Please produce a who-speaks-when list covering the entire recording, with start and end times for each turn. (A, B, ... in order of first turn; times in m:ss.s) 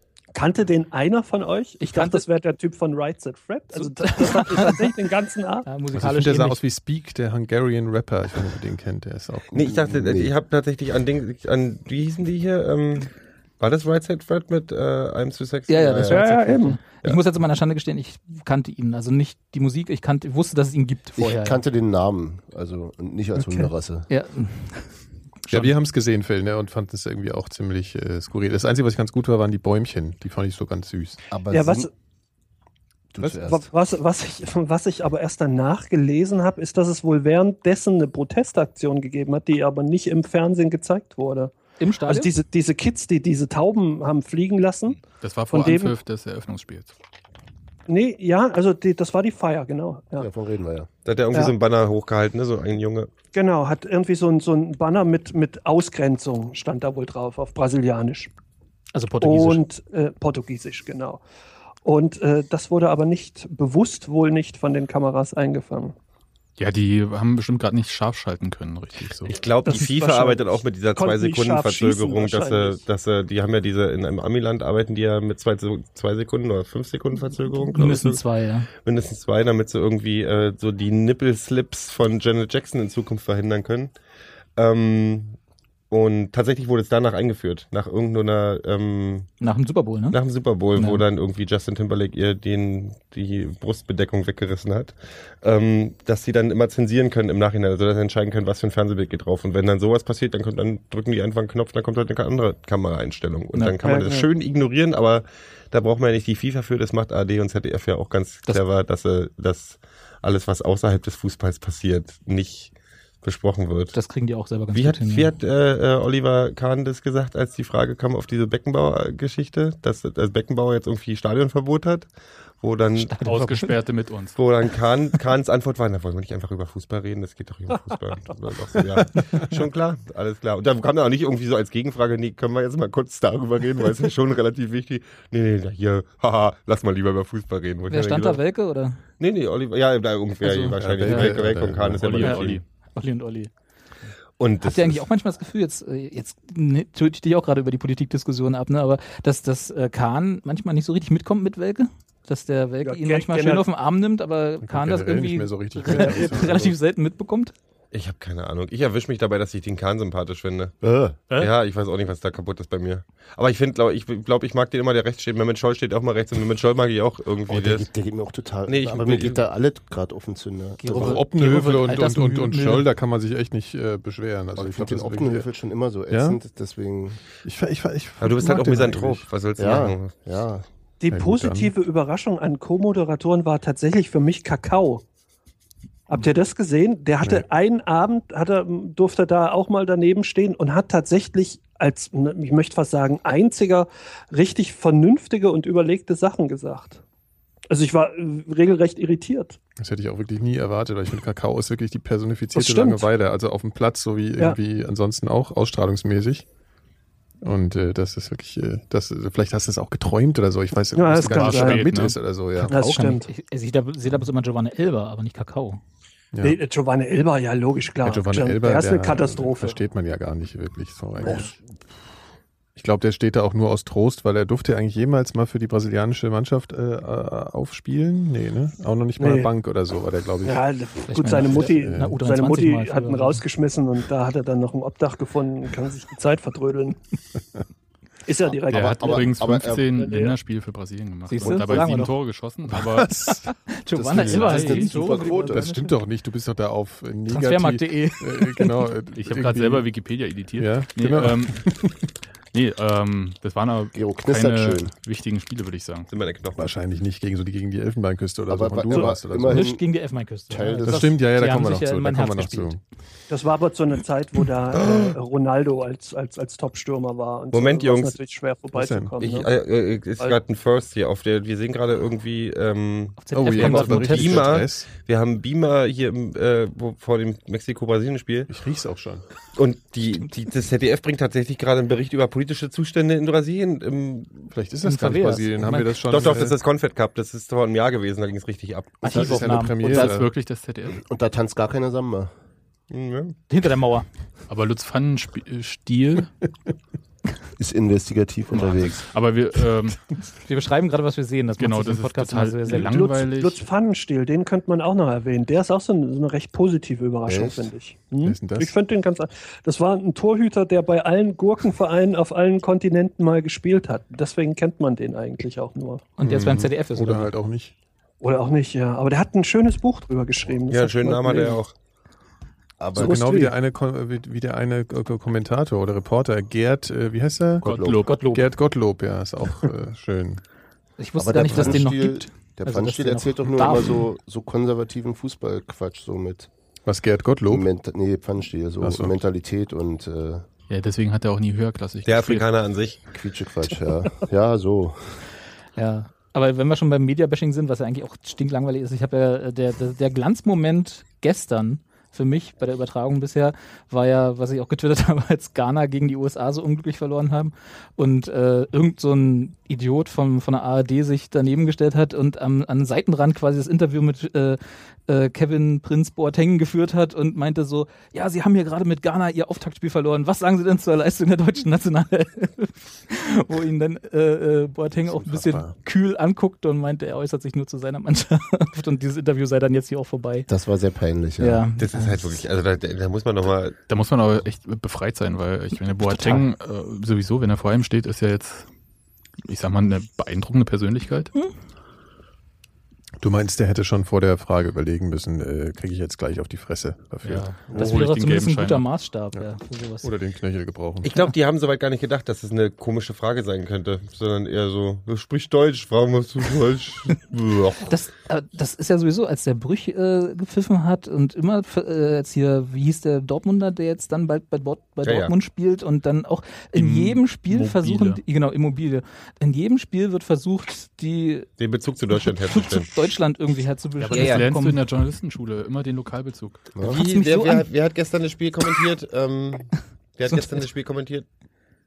0:00.3-0:05.7 A
0:01.8-0:02.2 B
0:03.7-0:04.9 B
0:05.6-0:06.6 B
0:05.9-0:09.5 C
0:09.5-0:16.2 D
0:09.5-0:10.3 E
0:15.7-0:21.6 B
0:16.1-0:16.8 A
0:21.2-0:24.1 E
0:23.4-0:23.7 A
0:24.1-0:24.9 B
0:25.5-0:31.2 C
0:31.3-0:31.9 E
0:31.5-0:31.9 A
0:33.1-0:33.7 E
0:33.2-0:41.5 A
0:41.8-0:42.3 B
0:42.0-0:46.0 A
0:45.2-0:46.9 F
0:47.9-0:50.3 A
0:50.2-0:50.9 E
0:51.0-0:53.1 D
0:53.3-0:58.3 A
0:58.9-0:59.6 B
0:59.2-1:01.2 A
1:01.8-1:05.9 A
1:06.6-1:09.4 F
1:09.2-1:18.2 D
1:09.6-1:12.8 A
1:17.7-1:18.7 B
1:18.8-1:23.9 D
1:24.6-1:25.4 D
1:25.9-1:29.3 D
1:29.4-1:30.2 B
1:30.1-1:54.0 D
1:30.7-1:31.0 B
1:43.5-1:43.8 B
1:43.8-1:44.3 A
1:53.9-1:55.3 B
1:54.7-2:02.1 D
2:02.6-2:03.1 D
2:02.9-2:03.7 B
2:03.2-2:04.4 F
2:04.4-2:18.4 D
2:17.9-2:19.0 B
2:19.2-2:22.6 D
2:20.4-2:20.8 B
2:20.8-2:22.3 C
2:22.0-2:22.6 F
2:22.2-2:23.5 B
2:24.4-2:25.0 D
2:24.6-2:37.5 B
2:32.8-2:33.6 A
2:34.6-2:36.7 C
2:35.9-2:36.7 E
2:37.9-2:40.7 D
2:40.8-2:41.2 E
2:41.3-2:47.9 D
2:47.5-2:51.2 E
2:48.7-2:49.4 D
2:50.8-2:52.9 B
2:50.9-2:55.5 C
2:54.6-2:57.2 E
2:56.1-2:56.4 C
2:57.4-2:59.2 C
2:58.2-3:00.2 D
2:59.6-3:00.6 E
3:01.0-3:05.0 A
3:01.1-3:01.7 C
3:06.1-3:17.0 A
3:17.7-3:19.6 A
3:19.8-3:26.4 C
3:22.5-3:23.1 A
3:27.4-3:32.7 C
3:30.9-3:31.9 A
3:31.2-3:32.2 F
3:32.6-3:35.8 B
3:32.7-3:33.3 A
3:36.3-3:36.6 C
3:36.4-3:39.8 A
3:38.0-3:41.6 C
3:42.8-3:50.6 C
3:49.2-3:49.5 A
3:50.4-3:57.0 A
3:51.1-3:53.4 B
3:51.4-3:52.2 C
3:58.2-4:00.4 A
3:58.7-4:03.1 F
3:58.7-3:59.9 E
4:01.3-4:02.1 B
4:02.7-4:03.5 C
4:03.4-4:06.0 B
4:03.9-4:05.6 E
4:04.2-4:05.2 F
4:05.5-4:09.9 C
4:07.3-4:08.8 B
4:09.2-4:11.7 F
4:10.6-4:12.0 C
4:12.5-4:16.1 F
4:13.9-4:14.9 E
4:16.1-4:16.7 D
4:16.6-4:19.7 C
4:18.5-4:19.8 E
4:19.4-4:22.7 B
4:20.5-4:21.1 E
4:20.8-4:22.8 C
4:23.3-4:29.5 A
4:24.7-4:25.1 D
4:27.5-4:28.2 D
4:28.7-4:29.1 C
4:29.2-4:38.5 D
4:33.2-4:34.5 B
4:33.3-4:34.9 C
4:38.5-4:39.2 C
4:39.5-4:44.5 D
4:44.5-4:46.6 C
4:44.8-4:46.0 B
4:46.1-4:49.1 D
4:49.0-4:50.0 B
4:49.1-4:50.2 E
4:49.1-4:50.3 C
4:49.9-4:51.0 F
4:50.9-4:52.3 E
4:52.9-4:53.4 D
4:53.5-4:54.0 B
4:54.5-4:56.3 F
4:57.6-4:59.0 E
4:58.5-5:00.0 F
5:00.4-5:03.0 B
5:01.6-5:03.6 F
5:02.7-5:16.0 A
5:07.2-5:07.7 E
5:08.2-5:08.7 C
5:16.2-5:17.3 B
5:16.2-5:17.7 C
5:18.2-5:21.6 A
5:20.7-5:21.7 D
5:22.8-5:23.1 E
5:22.9-5:27.7 C
5:23.0-5:23.5 A
5:27.6-5:28.0 E
5:27.6-5:28.2 F
5:28.0-5:28.4 B
5:28.3-5:30.4 C
5:31.0-5:34.0 B
5:31.2-5:36.5 E
5:31.5-5:31.8 C
5:36.8-5:37.7 C
5:37.5-5:40.4 E
5:38.8-5:39.2 C
5:40.7-5:42.4 F
5:42.0-5:43.0 D
5:43.1-5:45.0 E
5:45.8-6:20.5 B
6:15.1-6:15.7 C
6:20.5-6:21.6 E
6:21.4-6:22.2 B
6:21.8-6:23.7 D
6:23.9-6:28.7 F
6:26.0-6:26.4 B
6:29.4-6:31.3 F
6:33.2-6:37.5 C
6:37.2-6:38.9 F
6:37.4-6:40.1 B
6:40.0-6:41.1 C
6:41.0-6:47.9 D
6:47.9-7:01.5 B
6:55.0-6:55.3 D
6:56.7-6:58.2 F
7:01.6-7:02.9 D
7:02.2-7:04.8 B
7:04.0-7:06.6 F
7:04.1-7:04.4 D
7:06.8-7:11.2 D
7:06.8-7:07.7 B